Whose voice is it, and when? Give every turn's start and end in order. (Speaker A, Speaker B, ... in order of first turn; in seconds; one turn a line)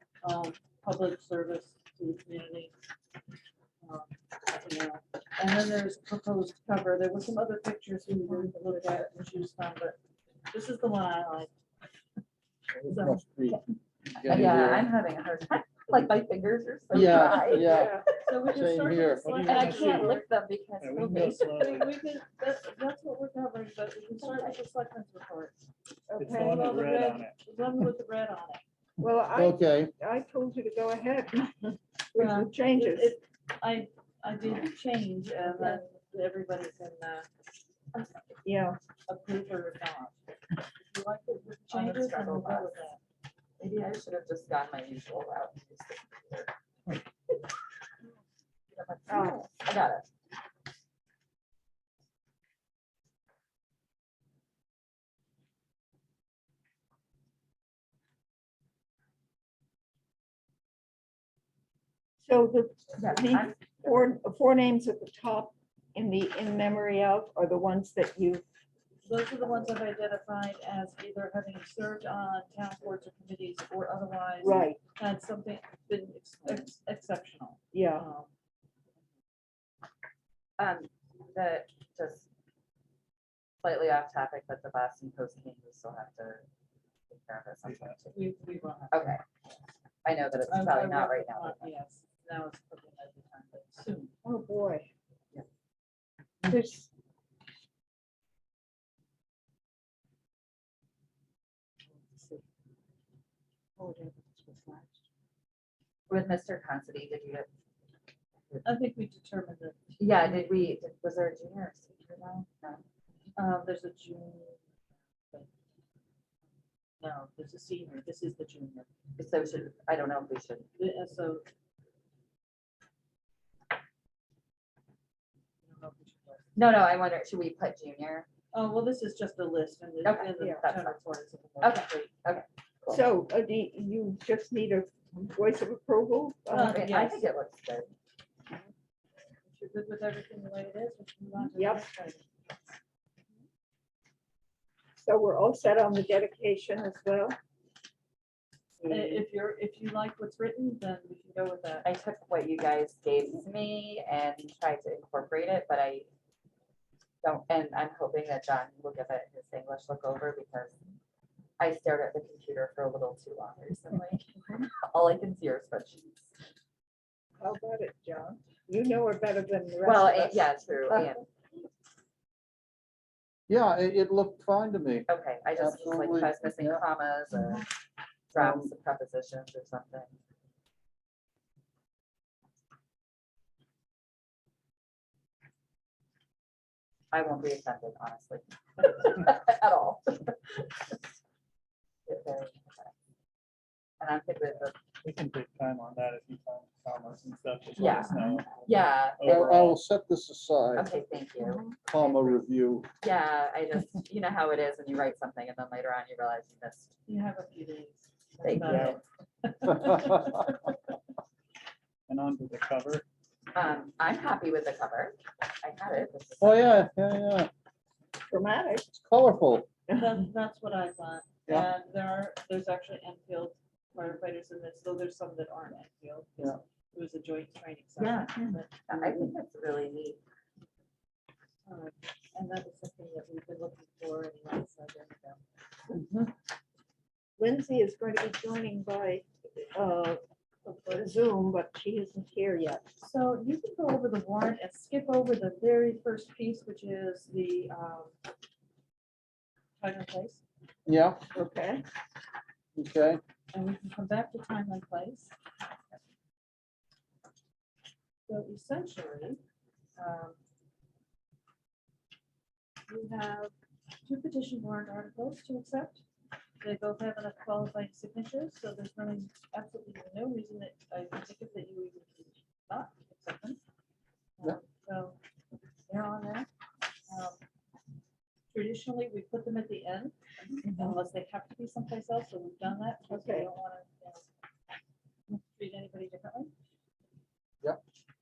Speaker A: 0.2-2.7
Speaker A: 3.8-10.0
Speaker B: 8.2-8.5
Speaker A: 10.5-11.5
Speaker C: 12.8-13.6
Speaker A: 12.9-13.2
Speaker C: 14.1-14.9
Speaker D: 14.2-18.0
Speaker C: 16.9-19.7
Speaker B: 17.3-18.0
Speaker A: 18.2-20.2
Speaker E: 19.2-20.2
Speaker D: 19.4-21.4
Speaker E: 20.8-21.9
Speaker A: 21.1-25.6
Speaker D: 24.2-24.6
Speaker B: 26.1-26.7
Speaker E: 26.2-27.4
Speaker A: 26.3-28.6
Speaker B: 29.0-33.2
Speaker C: 29.3-29.9
Speaker A: 32.1-37.3
Speaker B: 35.5-35.8
Speaker B: 38.4-38.8
Speaker A: 39.1-40.2
Speaker A: 40.8-43.0
Speaker D: 41.7-42.8
Speaker D: 43.6-46.5
Speaker D: 48.7-50.1
Speaker B: 49.1-49.4
Speaker B: 62.2-68.4
Speaker D: 63.0-64.0
Speaker A: 69.0-78.3
Speaker B: 74.4-74.8
Speaker B: 77.7-78.0
Speaker D: 80.6-82.3
Speaker D: 83.6-86.4
Speaker D: 87.1-88.2
Speaker E: 87.6-88.0
Speaker A: 88.1-89.1
Speaker D: 88.9-89.2
Speaker D: 90.0-91.7
Speaker A: 90.5-94.1
Speaker B: 94.2-94.9
Speaker B: 96.4-96.9
Speaker B: 102.0-102.4
Speaker B: 103.8-105.0
Speaker D: 106.1-107.5
Speaker A: 108.6-110.0
Speaker D: 110.0-112.8
Speaker A: 113.3-114.6
Speaker A: 117.0-118.9
Speaker D: 119.2-120.7
Speaker A: 120.7-121.4
Speaker A: 125.6-126.5
Speaker D: 126.5-128.3
Speaker A: 128.5-132.1
Speaker D: 130.0-131.0
Speaker D: 131.6-133.0
Speaker B: 132.9-136.8
Speaker A: 136.5-137.2
Speaker D: 136.6-137.9
Speaker A: 139.5-142.2
Speaker B: 141.5-141.9
Speaker B: 145.0-147.4
Speaker B: 148.8-149.2
Speaker A: 148.8-151.9
Speaker D: 151.8-156.1
Speaker D: 157.2-160.8
Speaker D: 161.6-166.3
Speaker B: 167.4-171.2
Speaker D: 169.8-171.2
Speaker C: 173.5-176.8
Speaker D: 175.1-177.6
Speaker D: 178.3-180.1
Speaker C: 178.3-178.7
Speaker D: 187.1-191.0
Speaker D: 192.1-192.9
Speaker D: 194.0-194.8
Speaker E: 195.0-199.8
Speaker D: 197.8-199.7
Speaker C: 199.2-200.9
Speaker D: 200.7-202.4
Speaker B: 201.4-201.7
Speaker C: 201.8-202.9
Speaker D: 203.0-206.9
Speaker A: 207.1-210.8
Speaker D: 208.4-209.0
Speaker E: 208.6-209.0
Speaker E: 212.1-213.0
Speaker D: 213.5-216.8
Speaker C: 216.4-217.5
Speaker B: 218.3-218.9
Speaker C: 218.9-219.7
Speaker B: 219.9-220.2
Speaker A: 219.9-228.7
Speaker D: 228.0-230.2
Speaker C: 229.0-229.3
Speaker A: 231.7-235.4
Speaker B: 237.4-240.2
Speaker A: 240.6-241.1
Speaker B: 240.9-242.9
Speaker A: 243.0-248.1
Speaker A: 249.8-250.4
Speaker C: 250.8-251.2
Speaker B: 251.3-251.8
Speaker C: 252.7-253.2
Speaker A: 253.5-255.3
Speaker A: 258.3-259.4
Speaker A: 260.0-260.4
Speaker A: 262.9-263.5
Speaker A: 264.0-266.0
Speaker A: 266.6-273.6
Speaker A: 274.4-275.2
Speaker A: 275.9-276.5
Speaker A: 277.1-277.4
Speaker A: 278.5-284.2
Speaker B: 280.6-281.0
Speaker B: 283.1-283.5
Speaker A: 285.3-286.5